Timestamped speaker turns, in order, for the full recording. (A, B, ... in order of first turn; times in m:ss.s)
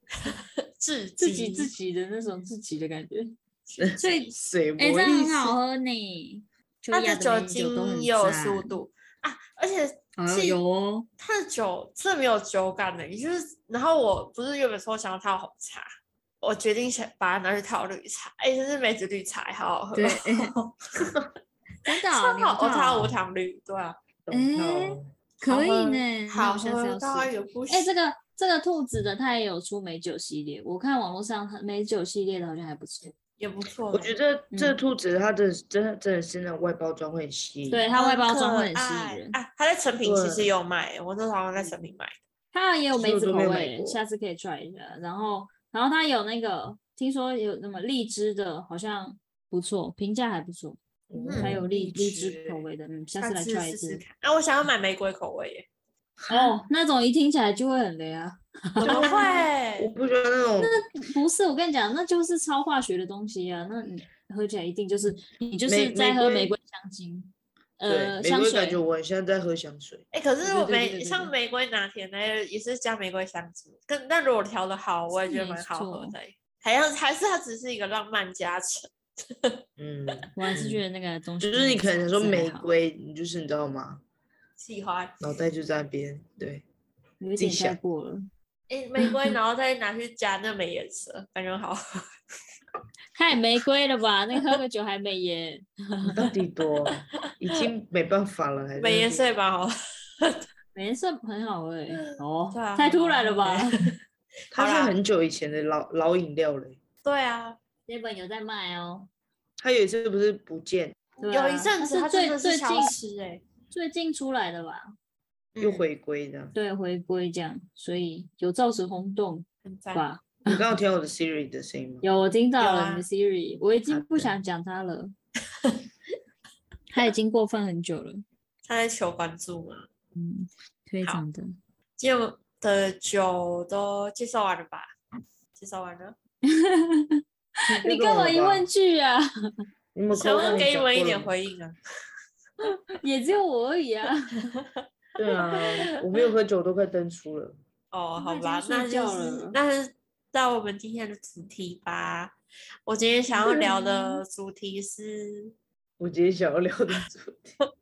0:00.2-0:01.7 A
0:01.2-0:03.4 B
0:03.7-0:04.4 A
0:03.8-0:05.6 C
0:04.0-0:08.8 B
0:06.9-0:10.6 A
0:10.2-0:11.1 B
0:11.2-0:15.9 A
0:16.4-0:21.2 A
0:19.9-0:20.5 B
0:21.8-0:23.1 B
0:22.1-0:24.0 A
0:24.2-0:25.1 C
0:24.3-0:33.1 B
0:25.4-0:27.9 A
0:33.4-0:34.1 A
0:33.9-0:37.9 C
0:34.5-0:34.8 B
0:37.7-0:39.4 B
0:38.0-0:42.1 A
0:40.0-0:40.5 C
0:42.5-0:50.8 B
0:42.9-0:44.0 C
0:51.1-0:52.7 C
0:51.2-0:51.6 A
0:51.3-0:54.0 B
0:53.2-0:55.6 A
0:56.2-0:56.6 C
0:56.3-0:59.4 B
0:58.8-0:59.9 A
0:58.8-1:00.8 C
1:00.6-1:08.8 B
1:05.7-1:06.5 C
1:07.9-1:10.0 C
1:10.1-1:19.6 A
1:10.4-1:11.3 B
1:15.3-1:16.2 B
1:19.8-1:20.8 C
1:20.4-1:22.7 B
1:21.4-1:24.0 C
1:24.6-1:25.2 A
1:25.2-1:26.6 C
1:27.2-1:28.3 B
1:27.4-1:27.8 C
1:28.7-1:32.0 A
1:33.2-1:36.2 B
1:36.0-1:39.3 C
1:38.8-1:40.5 A
1:40.7-1:43.8 B
1:42.5-1:43.9 A
1:44.5-1:46.8 C
1:44.5-1:45.0 A
1:47.0-1:47.6 A
1:47.9-1:49.1 B
1:49.6-1:51.0 C
1:51.2-1:53.0 B
1:51.3-1:53.4 A
1:53.7-1:54.8 B
1:55.5-1:55.8 A
1:55.6-1:56.6 C
1:56.5-2:00.7 B
1:59.6-2:00.0 A
2:00.4-2:02.0 C
2:02.0-2:05.1 B
2:02.6-2:03.1 A
2:03.9-2:04.4 C
2:06.9-2:08.2 B
2:08.6-2:09.9 A
2:10.1-2:11.5 B
2:12.0-2:14.9 A
2:15.5-2:16.2 A
2:16.5-2:17.2 B
2:17.8-2:19.2 B
2:17.8-2:18.7 C
2:19.9-2:21.3 C
2:20.1-2:21.8 A
2:23.0-2:24.4 B
2:24.4-2:24.7 A
2:25.2-2:27.6 C
2:25.3-2:26.2 A
2:27.9-2:32.4 A
2:28.2-2:29.6 B
2:32.9-2:35.5 A
2:36.0-2:37.6 C